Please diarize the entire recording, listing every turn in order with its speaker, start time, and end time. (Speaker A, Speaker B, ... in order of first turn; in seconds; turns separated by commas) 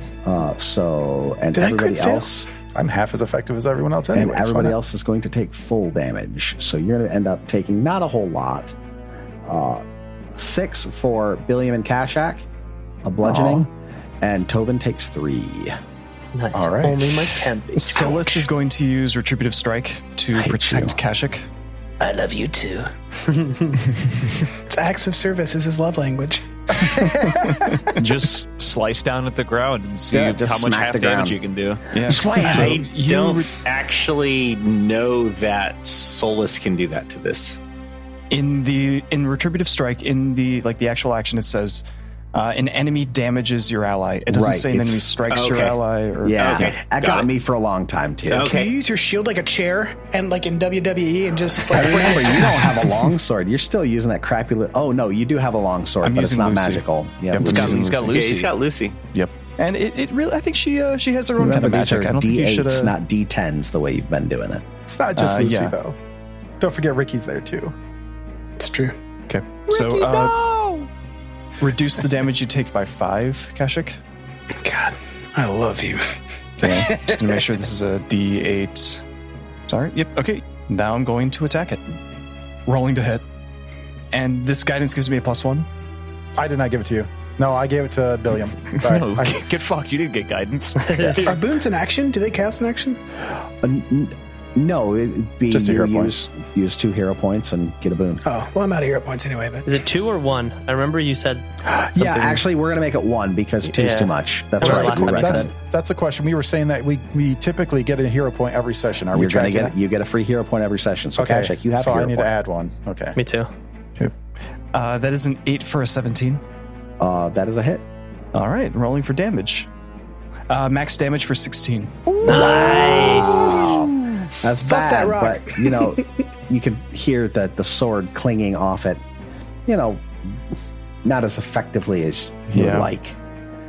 Speaker A: 0.2-2.5, Speaker B: 1.5-2.3, Speaker C: 2.7-4.7, Speaker A: 4.1-8.8, Speaker A: 9.4-9.8, Speaker A: 10.3-12.4, Speaker A: 13.0-13.7, Speaker C: 13.2-13.6, Speaker A: 14.2-15.8, Speaker D: 16.3-18.3, Speaker C: 16.5-17.3, Speaker E: 17.7-21.5, Speaker A: 20.3-21.0, Speaker B: 22.0-22.9, Speaker D: 23.4-23.7, Speaker B: 24.7-26.9, Speaker C: 26.7-27.8, Speaker E: 27.5-27.7, Speaker F: 27.9-31.9, Speaker A: 30.1-31.4, Speaker E: 31.9-33.5, Speaker A: 32.0-32.8, Speaker G: 32.4-37.6, Speaker E: 38.3-46.6, Speaker A: 44.3-45.1, Speaker G: 45.3-45.8, Speaker A: 46.2-48.5, Speaker G: 46.3-47.3, Speaker G: 48.3-48.7, Speaker B: 48.4-52.9, Speaker A: 51.7-57.9, Speaker E: 56.0-58.2, Speaker F: 57.4-58.5, Speaker G: 57.6-59.0, Speaker E: 59.1-63.0, Speaker A: 61.4-64.6, Speaker C: 64.8-66.0, Speaker E: 65.1-65.8, Speaker C: 66.6-67.7, Speaker B: 68.6-69.0, Speaker E: 69.3-70.5, Speaker B: 69.7-70.2, Speaker E: 71.6-74.0, Speaker B: 74.6-76.0, Speaker E: 76.6-79.0, Speaker E: 79.7-81.8, Speaker E: 82.7-83.2, Speaker E: 84.1-85.7, Speaker C: 86.4-89.4, Speaker F: 88.7-91.0, Speaker D: 90.8-91.4, Speaker C: 90.9-91.3, Speaker B: 91.2-93.0, Speaker A: 93.6-98.2, Speaker C: 95.5-96.1, Speaker B: 98.2-99.7, Speaker D: 99.6-102.4, Speaker A: 101.6-105.5, Speaker D: 103.7-105.5, Speaker C: 104.6-109.7, Speaker A: 109.1-112.3, Speaker C: 111.2-113.2, Speaker D: 113.2-113.5, Speaker E: 114.7-116.4, Speaker A: 117.0-117.8, Speaker E: 118.3-119.7, Speaker E: 120.5-122.2, Speaker A: 122.1-129.0, Speaker D: 122.2-123.7, Speaker B: 122.7-123.6, Speaker B: 124.6-126.1, Speaker A: 129.7-130.4, Speaker A: 131.0-133.2, Speaker E: 132.5-132.9